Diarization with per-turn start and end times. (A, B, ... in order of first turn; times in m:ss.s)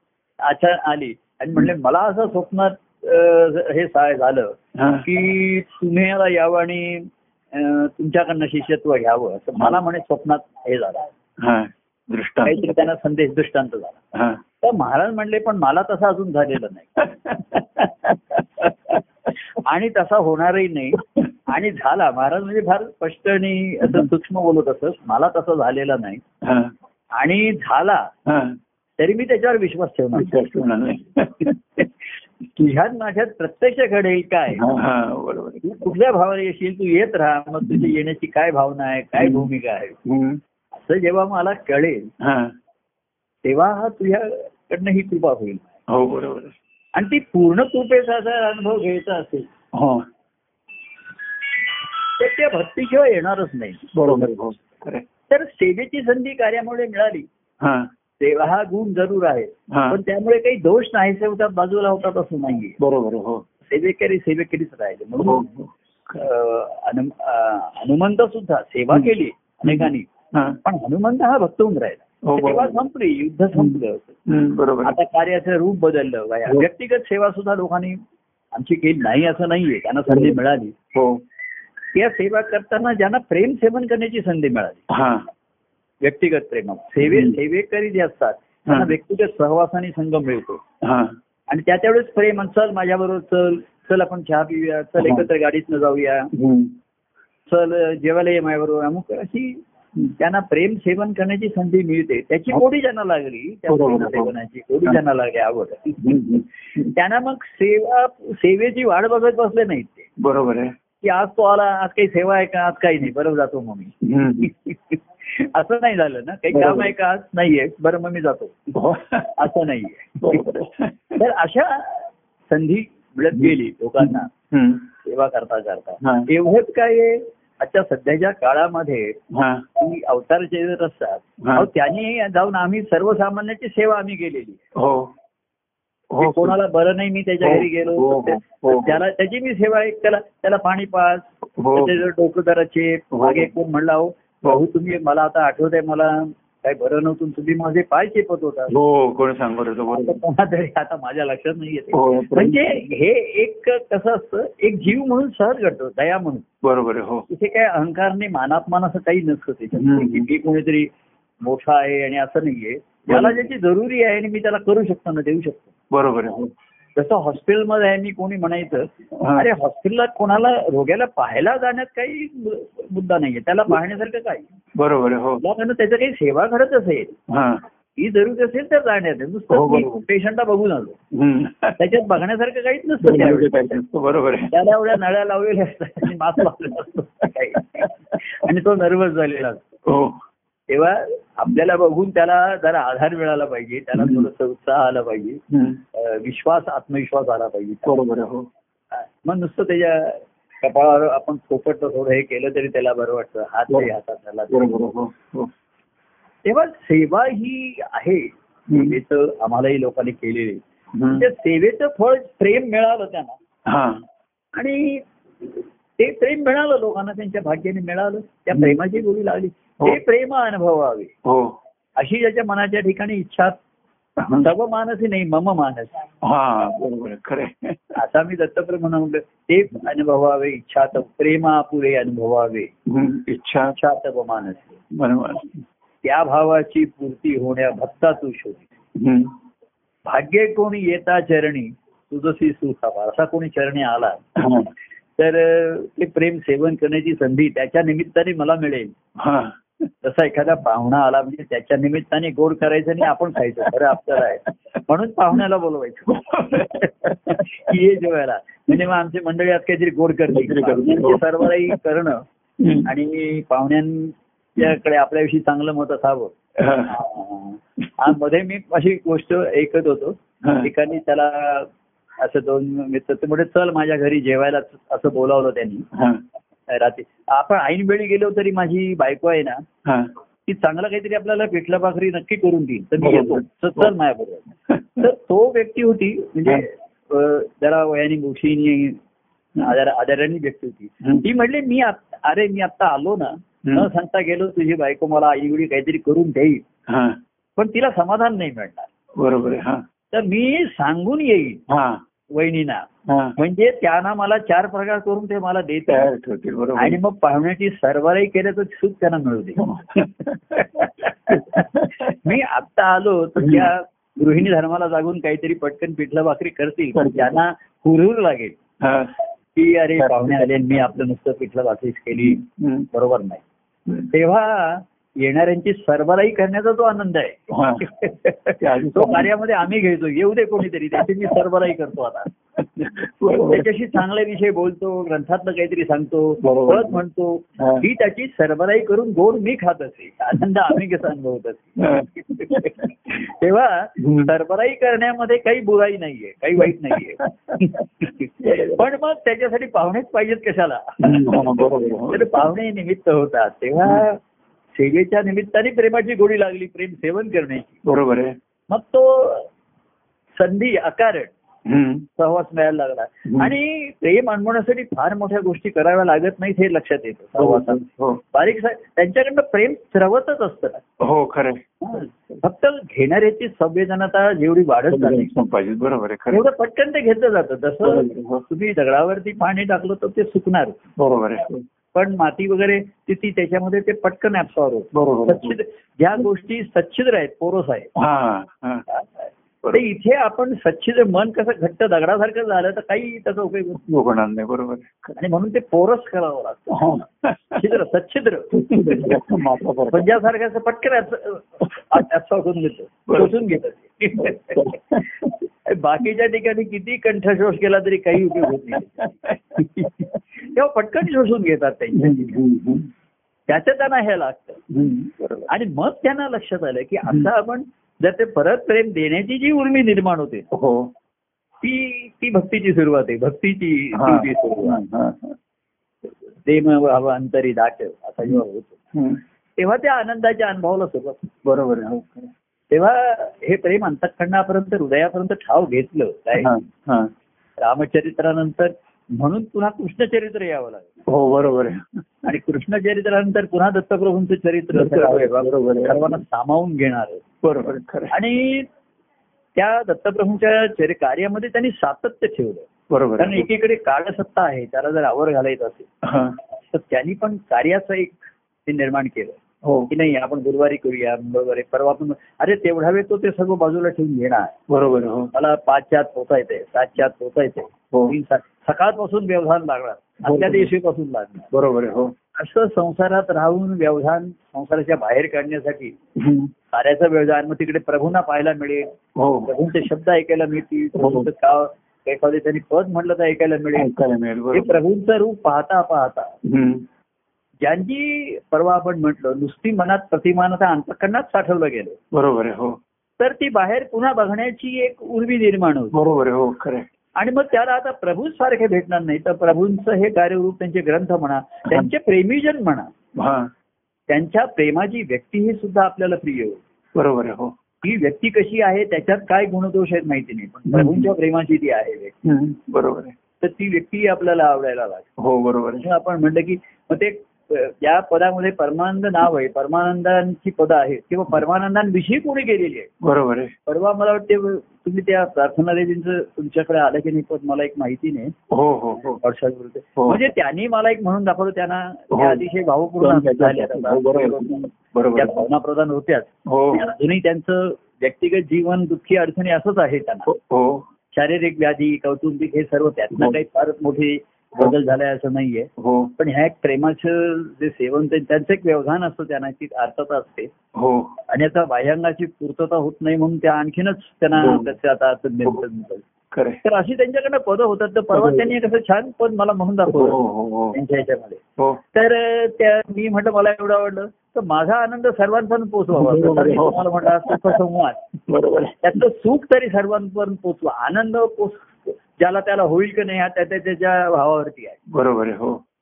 0:00.4-0:11.1 A
0:04.7-0:05.0 B
0:11.4-0:12.9 B
0:12.4-0:14.0 A
0:14.1-0:14.4 B
0:14.6-0:17.9 A
0:18.1-0:18.7 B
0:19.5-0:26.2 A
0:21.0-0:21.3 B
0:23.8-0:24.1 B
0:26.4-0:26.7 B
0:27.2-0:28.1 A
0:28.2-0:28.6 B
0:29.0-0:30.3 A
0:30.1-0:31.8 B
0:32.5-0:34.6 A
0:34.5-0:35.7 B
0:35.6-0:40.0 A
0:39.2-0:39.5 B
0:40.0-0:40.4 B
0:40.8-0:42.1 A
0:42.2-0:42.5 B
0:43.4-0:45.7 A
0:45.9-0:46.5 B
0:46.9-0:49.5 A
0:49.7-0:50.1 B
0:52.2-0:54.2 A
0:53.9-0:55.0 B
0:55.3-0:57.3 A
0:57.6-0:57.9 B
0:58.2-1:02.8 A
0:59.7-1:00.0 B
1:02.8-1:03.4 B
1:03.6-1:05.4 A
1:05.2-1:06.3 B
1:06.2-1:10.1 A
1:09.6-1:10.6 B
1:10.6-1:14.2 A
1:12.2-1:12.8 B
1:13.6-1:15.0 B
1:14.8-1:18.0 A
1:18.5-1:20.7 A
1:20.1-1:20.4 B
1:20.9-1:21.2 B
1:21.9-1:24.9 A
1:24.9-1:25.3 B
1:26.0-1:30.6 A
1:27.0-1:27.4 B
1:28.7-1:28.9 B
1:30.8-1:31.2 B
1:31.5-1:36.3 A
1:35.0-1:35.2 B
1:36.3-1:36.7 B
1:37.5-1:39.6 A
1:40.2-1:46.0 A
1:43.7-1:44.3 B
1:46.0-1:46.9 B
1:46.9-1:50.1 A
1:50.2-1:50.7 B
1:51.0-1:58.8 A
1:54.0-1:54.5 B
1:56.5-1:56.9 B
1:58.7-1:59.5 B
1:59.4-2:00.5 A
2:00.2-2:01.2 B
2:01.2-2:04.3 A
2:03.3-2:04.8 B
2:05.0-2:09.2 A
2:06.0-2:06.3 B
2:09.3-2:09.6 B
2:09.8-2:14.6 A
2:11.4-2:11.7 B
2:14.7-2:15.1 B
2:16.1-2:16.6 B
2:16.2-2:28.7 A
2:17.4-2:19.0 B
2:21.6-2:22.0 B
2:23.1-2:23.5 B
2:28.7-2:30.2 B
2:29.9-2:36.4 A
2:31.9-2:32.8 B
2:36.6-2:37.2 B
2:37.3-2:45.7 A
2:39.8-2:40.2 B
2:43.1-2:43.4 B
2:45.9-2:46.5 B
2:47.0-2:54.4 A
2:49.2-2:49.5 B
2:54.7-2:55.4 B
2:55.4-2:57.2 A
2:57.3-2:57.6 B
2:58.0-3:01.0 A
2:59.5-3:00.0 B
3:01.1-3:01.8 B
3:01.8-3:03.8 A
3:03.0-3:04.5 B
3:04.5-3:09.6 A
3:07.5-3:07.8 B
3:09.8-3:10.2 B
3:10.7-3:15.4 A
3:13.9-3:14.3 B
3:15.5-3:15.8 B
3:15.9-3:18.0 A
3:17.8-3:18.5 B
3:19.0-3:24.7 A
3:24.5-3:25.5 B
3:26.4-3:33.3 A
3:28.7-3:29.0 B
3:30.9-3:31.2 B
3:33.7-3:34.0 B
3:34.5-3:41.1 A
3:41.2-3:41.6 B
3:42.0-3:43.6 A
3:44.2-3:44.5 B
3:44.4-3:46.0 A
3:46.2-3:48.0 B
3:48.0-3:52.7 A
3:52.9-3:53.7 B
3:53.7-3:54.7 A
3:54.9-3:55.6 B
3:56.0-3:58.7 A
3:59.0-3:59.3 B
4:00.0-4:04.2 A
4:04.4-4:04.7 B
4:05.2-4:08.9 A
4:09.2-4:09.6 B
4:10.0-4:22.2 A
4:13.6-4:14.5 B
4:16.1-4:17.7 B
4:20.3-4:21.8 B
4:22.6-4:22.9 B
4:22.8-4:35.9 A
4:26.6-4:27.0 B
4:30.4-4:30.7 B
4:35.9-4:36.2 B
4:36.7-4:39.6 A
4:39.8-4:40.1 B
4:40.5-4:49.0 A
4:43.0-4:43.9 B
4:44.7-4:45.0 B
4:49.6-4:56.6 A
4:53.6-4:53.9 B
4:56.9-4:57.2 B
4:57.6-4:58.9 A
4:59.2-4:59.8 B
5:00.1-5:01.6 A
5:01.7-5:02.0 B
5:02.3-5:06.1 A
5:03.1-5:03.3 B
5:05.9-5:07.0 B
5:06.8-5:10.0 A
5:09.6-5:12.2 B
5:10.6-5:18.6 A
5:13.4-5:13.7 B
5:16.9-5:17.4 B
5:18.8-5:19.1 B
5:19.6-5:23.4 A
5:20.0-5:21.0 B
5:22.1-5:22.9 B
5:24.1-5:32.3 A
5:27.5-5:27.8 B
5:28.6-5:29.3 B
5:32.6-5:33.7 B
5:33.3-5:54.2 A
5:36.4-5:37.0 B
5:37.6-5:37.8 B
5:41.8-5:42.9 B
5:44.0-5:44.3 B
5:46.6-5:47.8 B
5:48.4-5:48.8 B
5:51.0-5:52.5 B
5:54.7-5:57.8 A
5:57.8-5:58.4 B
5:58.7-5:59.5 A
6:00.4-6:01.3 A
6:01.6-6:02.0 B
6:02.2-6:10.8 A
6:03.3-6:03.5 B
6:07.4-6:08.2 B
6:11.0-6:12.4 B
6:11.8-6:15.3 A
6:14.9-6:16.4 B
6:16.3-6:20.9 A
6:17.8-6:18.4 B
6:21.0-6:21.6 B
6:21.9-6:27.9 A
6:24.9-6:25.6 B
6:28.0-6:28.8 B
6:28.9-6:33.8 A
6:33.8-6:35.2 B
6:35.2-6:36.9 A
6:36.7-6:37.8 B
6:37.5-6:39.2 A
6:38.5-6:40.2 B
6:39.9-6:52.4 A
6:43.1-6:43.5 B
6:44.2-6:45.3 B
6:48.1-6:50.2 B
6:51.9-6:52.9 B
6:53.5-6:54.6 A
6:54.7-6:55.5 B
6:55.5-7:00.5 A
7:00.5-7:00.9 B
7:01.6-7:04.8 A
7:03.9-7:05.4 B
7:06.4-7:08.8 A
7:08.9-7:09.2 B
7:09.6-7:11.4 A
7:11.4-7:12.3 B
7:12.7-7:16.5 A
7:16.3-7:17.1 B
7:17.6-7:20.9 A
7:21.1-7:21.8 B
7:22.2-7:27.2 A
7:24.7-7:26.2 B
7:27.4-7:28.1 B
7:28.1-7:28.7 A
7:29.6-7:35.9 A
7:32.9-7:33.5 B
7:36.0-7:36.4 B
7:36.7-7:39.4 A
7:39.6-7:39.9 B
7:39.9-7:44.6 A
7:44.7-7:45.3 B
7:45.3-7:51.5 A
7:50.2-7:50.7 B
7:51.5-7:52.1 B
7:52.4-7:55.9 A
7:56.2-7:56.5 B
7:56.7-7:58.9 A
7:59.2-7:59.5 B
7:59.4-8:03.9 A
8:01.0-8:01.3 B
8:03.8-8:04.8 B
8:04.5-8:06.3 A
8:06.4-8:06.8 B
8:07.6-8:12.0 A
8:12.1-8:12.8 B
8:13.2-8:16.0 A
8:15.9-8:16.9 B
8:17.2-8:22.9 A
8:23.2-8:23.5 B
8:24.1-8:26.6 A
8:26.9-8:27.5 B
8:27.8-8:32.2 A
8:30.7-8:31.1 B
8:32.2-8:33.1 B
8:33.4-8:35.1 A
8:35.2-8:35.9 B
8:35.8-8:42.9 A
8:43.0-8:43.5 B
8:43.7-8:48.3 A
8:48.5-8:49.2 B
8:49.2-9:00.3 A
8:50.0-8:50.2 B
8:52.1-8:52.4 B
8:53.0-8:55.4 B
8:56.4-8:56.8 B
9:00.3-9:00.9 B
9:01.1-9:10.5 A
9:05.8-9:06.1 B
9:10.7-9:11.1 B
9:11.3-9:16.0 A
9:14.4-9:14.7 B
9:16.3-9:16.6 B
9:16.6-9:21.4 A
9:18.1-9:18.5 B
9:19.9-9:20.8 B
9:21.9-9:28.0 A
9:25.9-9:27.6 B
9:28.3-9:28.8 B
9:28.8-9:34.8 A
9:34.9-9:35.6 B